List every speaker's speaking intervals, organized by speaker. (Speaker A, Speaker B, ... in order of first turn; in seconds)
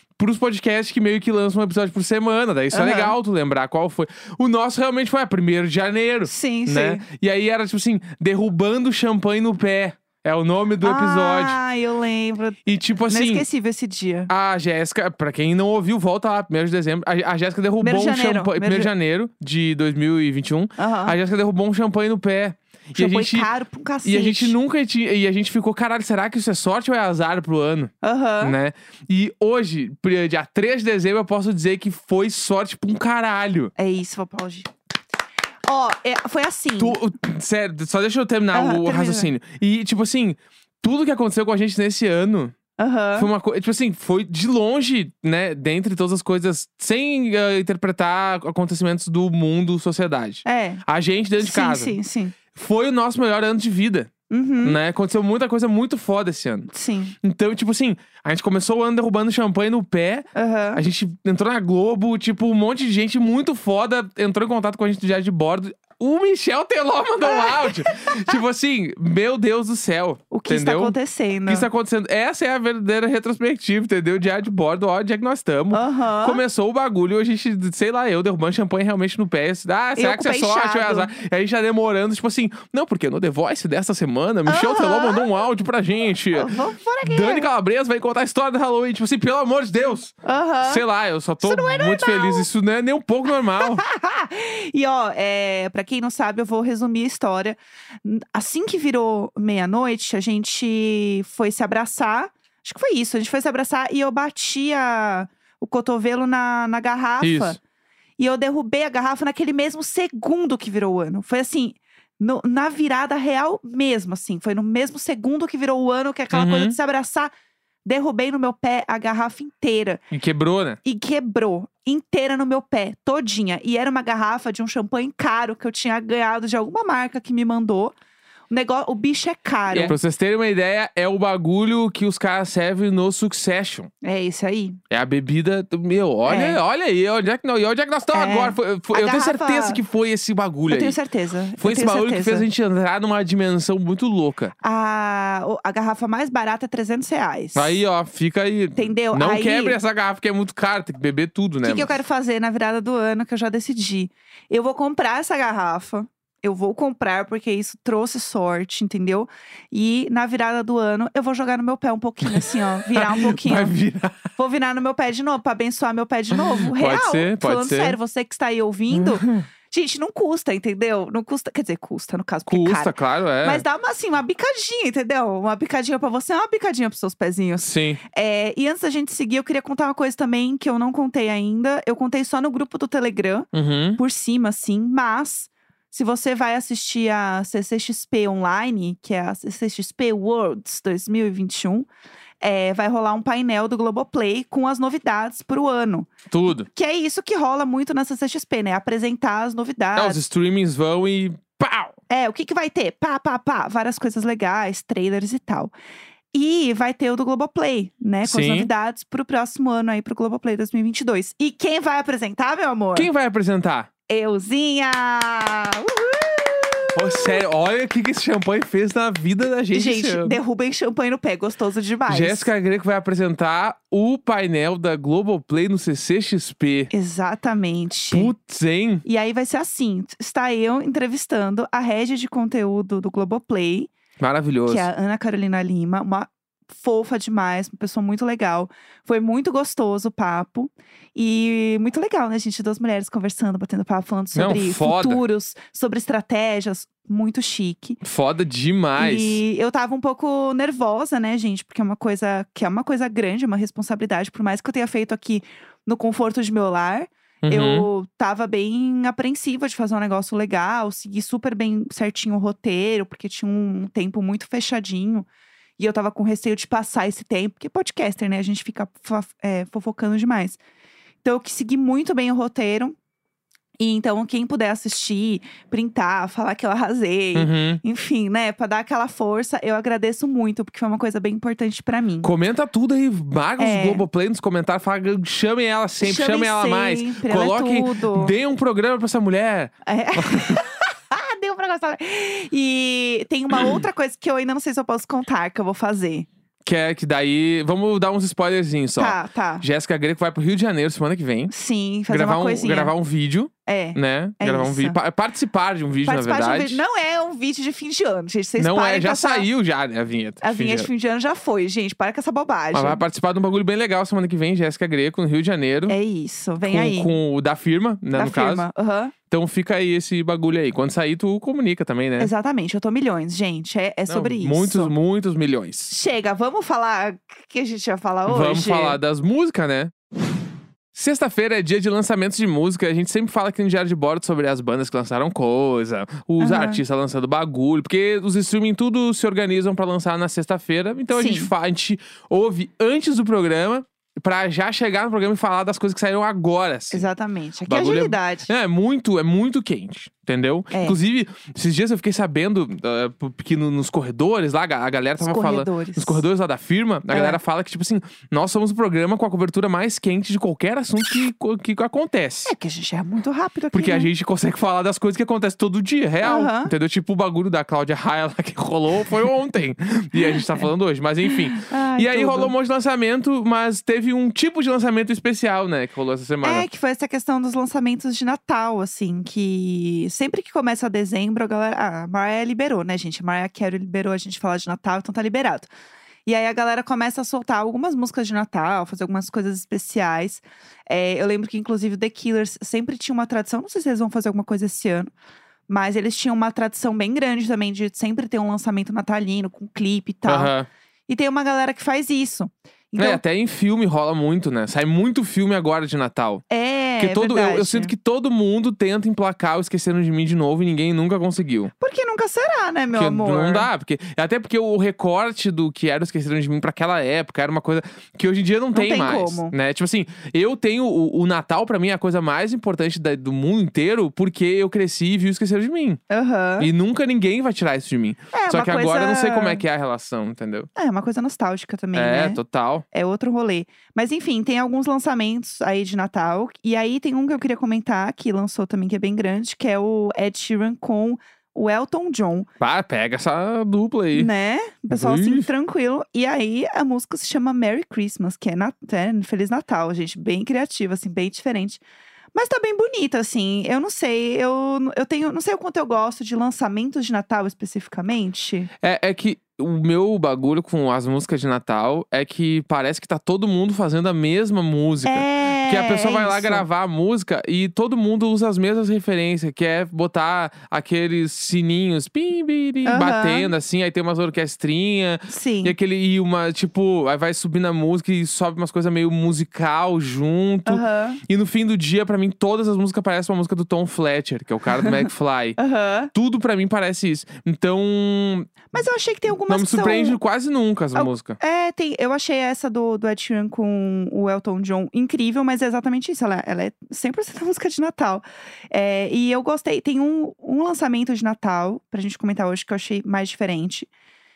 Speaker A: 0.2-11.6, 12.7-13.5, 14.3-23.5, 24.0-33.7, 36.8-42.5, 43.2-52.0, 52.5-54.1, 54.6-56.7, 57.2-93.8, 107.2-107.6, 116.3-116.8, 120.1-120.8, 129.7-133.9, 134.9-141.0, 141.6-144.5, 147.6-151.9, 162.3-164.3, 166.3-168.0, 168.9-169.5, 172.5-173.6, 177.6-178.0, 183.5-184.0, 196.3-196.7, 199.9-202.0, 208.2-208.7, 212.9-213.9, 216.9-220.4, 222.1-226.9, 228.1-229.1, 234.2-234.9, 244.3-245.2, 248.0-249.4, 257.4-257.9, 277.4-277.8, 282.2-290.6, 296.6-301.5, 302.1-306.8, 308.6-310.9, 312.7-316.0, 316.6-318.7, 319.3-322.3, 324.1-325.9, 328.3-329.9, 330.9-347.1, 347.7-362.5, 363.7-376.7, 400.3-400.7, 403.0-406.4, 407.0-411.7, 412.9-426.0, 426.6-430.7, 431.9-432.9, 442.6-444.3, 444.9-445.5, 458.8-485.6, 486.1-488.7, 489.5-491.4
Speaker B: 2.7-3.1, 6.3-7.0, 10.8-14.3, 17.8-18.9, 20.8-21.2, 23.0-24.6, 28.0-28.6, 33.8-34.7, 35.7-37.0, 38.5-39.3, 42.8-43.3, 50.5-50.8, 51.4-52.4, 54.3-54.8, 56.7-57.1, 60.4-60.8, 67.2-68.3, 70.3-71.7, 75.7-76.4, 80.0-81.1, 84.5-85.3, 86.3-87.5, 90.2-90.8, 91.4-92.5, 93.6-107.6, 108.2-117.3, 117.8-120.0, 120.8-127.9, 128.5-130.0, 134.0-134.8, 136.3-136.6, 138.1-139.8, 140.7-142.5, 144.6-147.8, 148.8-149.8, 151.6-163.7, 164.3-191.9, 192.4-196.1, 196.7-200.2, 202.1-205.7, 206.3-213.1, 214.1-217.4, 219.7-222.5, 226.9-228.3, 229.1-233.9, 234.7-248.0, 249.0-265.3, 265.8-270.6, 271.2-272.9, 273.8-282.3, 283.6-284.1, 286.0-288.4, 289.9-296.3, 299.0-299.6, 301.5-302.9, 303.7-305.0, 306.1-309.5, 310.4-313.0, 315.9-317.1, 318.1-319.1, 322.2-324.9, 325.9-329.0, 336.4-336.8, 341.1-341.5, 346.9-348.5, 350.7-351.0, 355.2-356.2, 357.1-357.4, 362.4-364.1, 366.2-366.7, 371.5-372.5, 376.4-385.7, 386.3-395.1, 395.7-400.5, 401.1-403.2, 406.5-407.9, 411.8-413.7, 418.7-419.5, 426.1-426.7, 428.3-429.6, 430.8-432.4, 432.9-442.5, 444.1-451.8, 452.3-458.7, 465.1-466.6, 472.9-473.5, 475.3-475.8, 480.7-481.2, 485.6-486.1, 488.7-490.2, 490.9-503.9